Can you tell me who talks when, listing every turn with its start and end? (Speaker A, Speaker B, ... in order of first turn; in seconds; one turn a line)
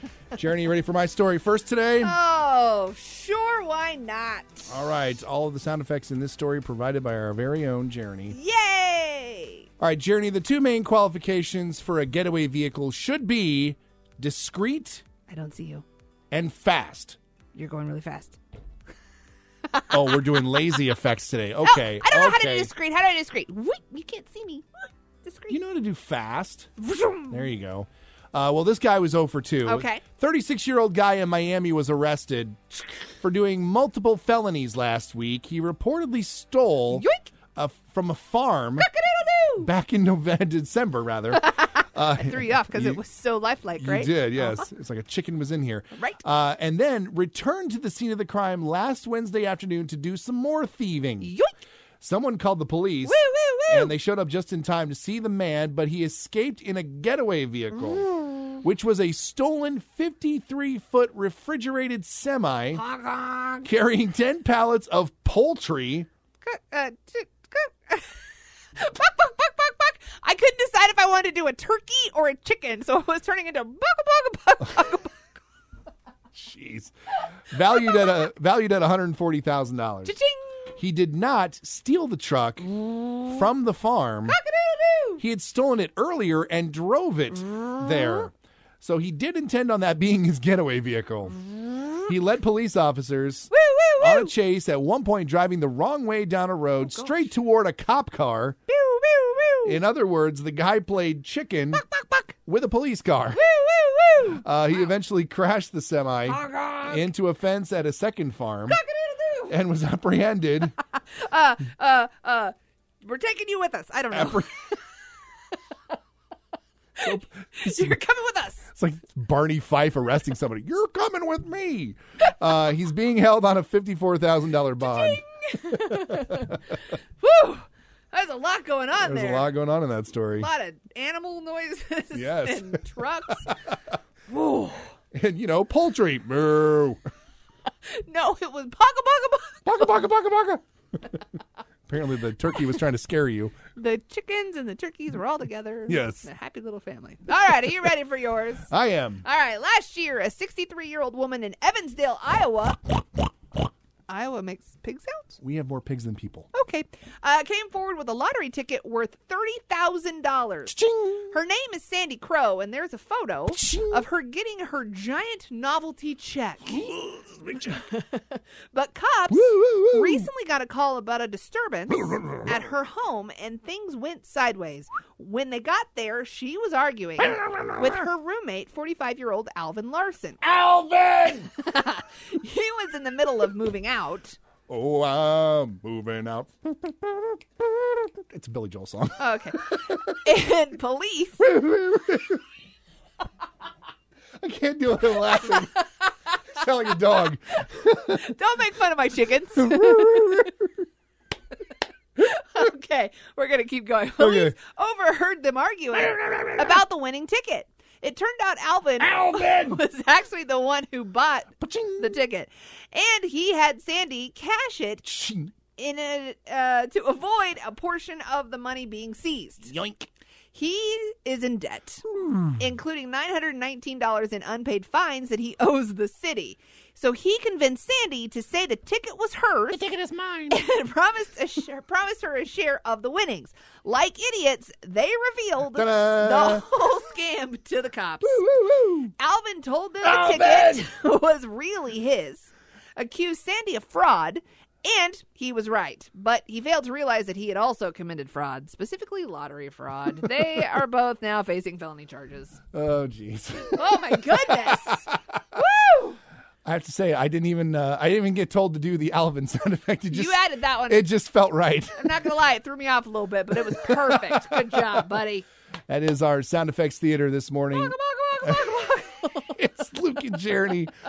Speaker A: 0.3-2.1
Speaker B: 2.0-4.8
Speaker A: 4.7-8.4
Speaker B: 8.3-9.7
Speaker A: 9.8-15.0
Speaker B: 15.3-15.8
Speaker A: 16.3-17.2
Speaker B: 17.5-18.4
Speaker B: 19.7-20.6
Speaker A: 19.9-22.7
Speaker B: 21.6-24.7
Speaker B: 25.2-25.6
Speaker A: 25.5-26.7
Speaker B: 26.8-27.4
Speaker A: 27.3-38.9
Speaker B: 29.6-30.0
Speaker B: 36.9-37.3
Speaker B: 38.8-39.7
Speaker A: 39.6-43.0
Speaker B: 41.4-44.7
Speaker A: 43.8-51.3
Speaker B: 45.9-46.2
Speaker B: 51.2-51.5
Speaker A: 52.0-62.8
Speaker B: 53.0-53.9
Speaker B: 62.8-63.7
Speaker A: 63.6-66.1
Speaker B: 66.4-68.2
Speaker B: 68.8-75.3
Speaker A: 76.3-76.9
Speaker A: 77.5-80.1
Speaker B: 80.0-80.7
Speaker A: 80.8-84.4
Speaker B: 82.9-83.2
Speaker B: 84.3-85.2
Speaker A: 85.2-91.4
Speaker B: 87.5-87.8
Speaker A: 92.0-98.6
Speaker B: 93.5-94.3
Speaker B: 96.8-97.3
Speaker B: 98.7-99.8
Speaker A: 99.7-101.9
Speaker B: 101.8-102.3
Speaker A: 102.4-103.4
Speaker B: 103.3-104.4
Speaker A: 104.3-108.8
Speaker B: 106.3-107.1
Speaker B: 108.7-109.5
Speaker A: 109.5-110.8
Speaker B: 111.0-114.8
Speaker A: 114.1-114.5
Speaker B: 117.0-118.7
Speaker A: 117.0-118.0
Speaker A: 118.7-126.6
Speaker B: 124.8-129.5
Speaker A: 129.0-130.5
Speaker B: 130.4-133.6
Speaker A: 132.1-132.8
Speaker B: 134.3-134.9
Speaker A: 135.1-137.0
Speaker B: 137.8-139.8
Speaker A: 139.7-140.6
Speaker A: 141.9-143.5
Speaker B: 143.8-148.7
Speaker A: 145.9-146.3
Speaker A: 148.7-149.2
Speaker B: 149.2-152.8
Speaker B: 154.1-155.4
Speaker A: 155.4-156.5
Speaker B: 156.5-160.8
Speaker A: 160.7-161.3
Speaker B: 161.3-166.8
Speaker A: 163.5-164.1
Speaker A: 166.7-167.8
Speaker B: 167.7-180.4
Speaker A: 169.3-170.3
Speaker A: 172.1-172.5
Speaker A: 177.3-177.9
Speaker A: 180.4-181.5
Speaker B: 181.5-184.4
Speaker A: 184.7-190.2
Speaker B: 189.2-191.5
Speaker A: 191.4-192.4
Speaker A: 194.4-195.8
Speaker B: 195.6-195.8
Speaker A: 196.4-198.3
Speaker B: 198.1-200.5
Speaker A: 199.6-200.7
Speaker B: 202.2-215.1
Speaker A: 204.2-204.6
Speaker A: 206.0-206.8
Speaker A: 209.0-209.8
Speaker A: 211.6-212.2
Speaker A: 215.0-215.5
Speaker B: 215.8-219.8
Speaker A: 219.7-220.1
Speaker B: 220.5-222.1
Speaker A: 222.1-222.5
Speaker B: 222.6-229.8
Speaker A: 229.7-230.6
Speaker B: 230.5-238.4
Speaker A: 235.7-236.7
Speaker A: 238.2-239.1
Speaker B: 239.2-252.6
Speaker A: 240.0-240.8
Speaker A: 252.7-255.0
Speaker B: 253.7-256.2
Speaker A: 256.6-262.2
Speaker B: 260.1-261.1
Speaker B: 261.9-265.4
Speaker A: 263.8-264.9
Speaker A: 265.9-268.9
Speaker B: 267.7-269.6
Speaker A: 269.5-270.9